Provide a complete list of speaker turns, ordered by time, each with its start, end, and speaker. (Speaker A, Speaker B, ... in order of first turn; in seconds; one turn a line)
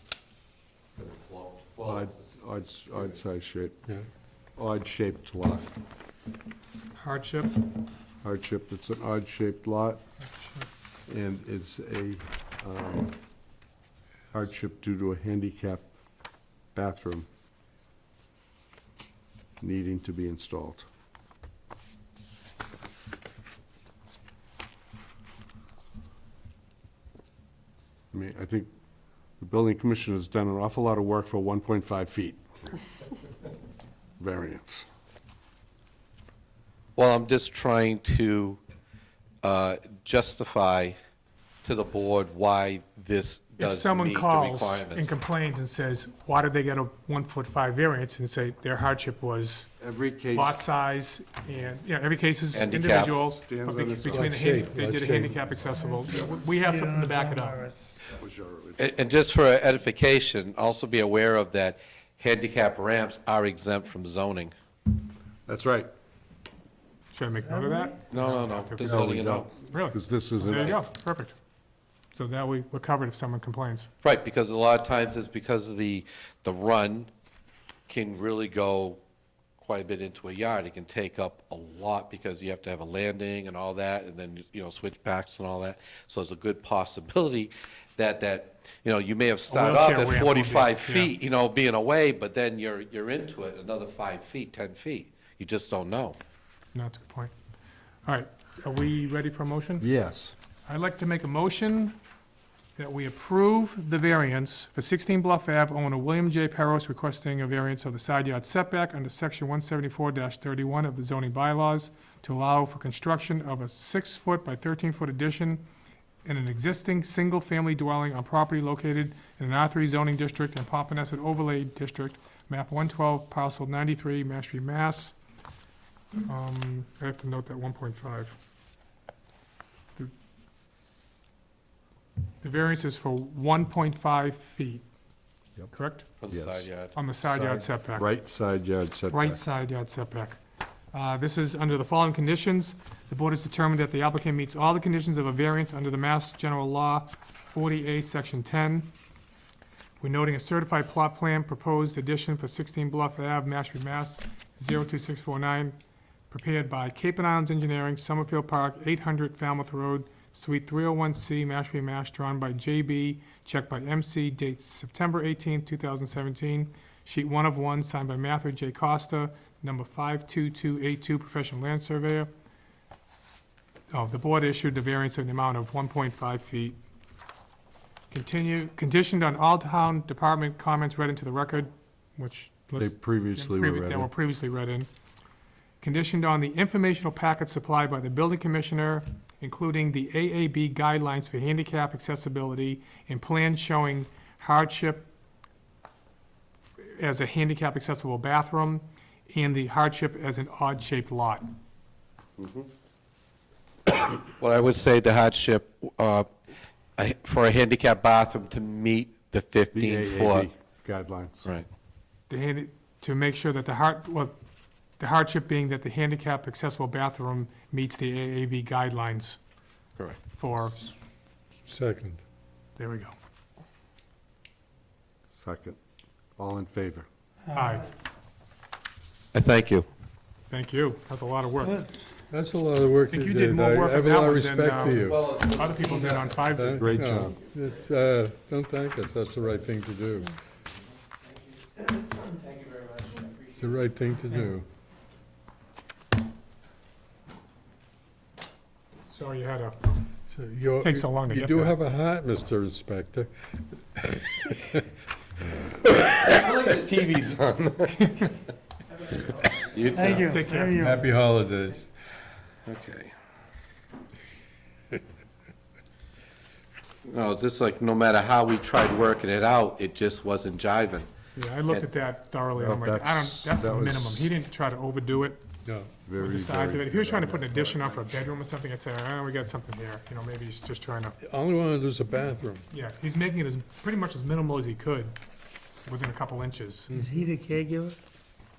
Speaker A: 0.9-2.4
Speaker B: 1.8-3.8
Speaker A: 2.9-3.2
Speaker B: 4.6-5.7
Speaker C: 7.0-7.6
Speaker B: 8.2-10.0
Speaker C: 10.3-10.7
Speaker B: 11.1-13.1
Speaker B: 14.3-15.8
Speaker B: 16.7-17.2
Speaker B: 19.6-20.9
Speaker B: 28.1-28.7
Speaker B: 29.4-32.4
Speaker B: 34.2-34.9
Speaker A: 37.0-38.6
Speaker A: 39.4-41.0
Speaker A: 41.6-45.1
Speaker C: 43.6-49.7
Speaker B: 49.8-50.6
Speaker C: 50.3-57.6
Speaker A: 52.5-53.2
Speaker B: 53.2-54.4
Speaker D: 54.1-55.4
Speaker E: 55.8-58.0
Speaker B: 58.1-58.8
Speaker A: 58.8-64.5
Speaker B: 65.5-65.9
Speaker C: 67.1-71.3
Speaker E: 67.5-67.9
Speaker A: 68.1-69.5
Speaker B: 68.8-70.8
Speaker C: 72.1-73.9
Speaker A: 74.0-77.1
Speaker A: 77.9-79.0
Speaker A: 79.6-96.2
Speaker C: 89.5-91.1
Speaker C: 96.7-97.3
Speaker C: 98.0-99.9
Speaker B: 99.8-100.3
Speaker C: 100.7-102.0
Speaker C: 102.8-115.6
Speaker C: 116.2-125.2
Speaker C: 126.2-128.3
Speaker C: 132.4-134.8
Speaker C: 135.7-136.1
Speaker A: 136.2-136.9
Speaker B: 136.3-139.4
Speaker C: 136.9-138.1
Speaker C: 139.1-140.4
Speaker C: 140.9-148.9
Speaker C: 150.0-155.7
Speaker C: 156.3-172.3
Speaker C: 173.9-176.8
Speaker C: 178.1-184.9
Speaker B: 182.8-184.1
Speaker C: 185.8-195.1
Speaker C: 196.8-201.5
Speaker B: 202.4-202.7
Speaker A: 204.2-206.3
Speaker A: 207.0-210.5
Speaker B: 209.7-211.5
Speaker C: 212.3-214.3
Speaker C: 215.0-219.4
Speaker C: 220.3-220.9
Speaker D: 221.6-222.2
Speaker C: 222.8-223.1
Speaker B: 225.3-225.8
Speaker B: 226.4-227.1
Speaker E: 227.5-227.8
Speaker C: 227.5-227.9
Speaker A: 229.3-229.9
Speaker C: 230.5-231.8
Speaker D: 232.3-235.3
Speaker C: 233.1-237.1
Speaker A: 235.2-236.2
Speaker D: 236.5-240.3
Speaker B: 236.7-237.4
Speaker E: 242.2-243.4
Speaker D: 243.5-244.7
Speaker C: 249.1-249.9
Speaker D: 250.3-253.3
Speaker C: 250.8-251.7
Speaker D: 253.9-254.8
Speaker A: 256.0-258.1
Speaker A: 259.4-260.4
Speaker E: 259.9-261.0
Speaker C: 260.2-260.8
Speaker D: 260.7-261.9
Speaker A: 262.6-263.1
Speaker A: 267.0-271.1
Speaker C: 271.3-275.4
Speaker B: 272.6-274.3
Speaker D: 275.6-275.9
Speaker B: 276.0-278.2
Speaker C: 276.2-281.1
Speaker D: 281.2-282.6
Speaker C: 282.7-285.1
Speaker C: 285.9-286.9
Speaker E: 286.9-288.0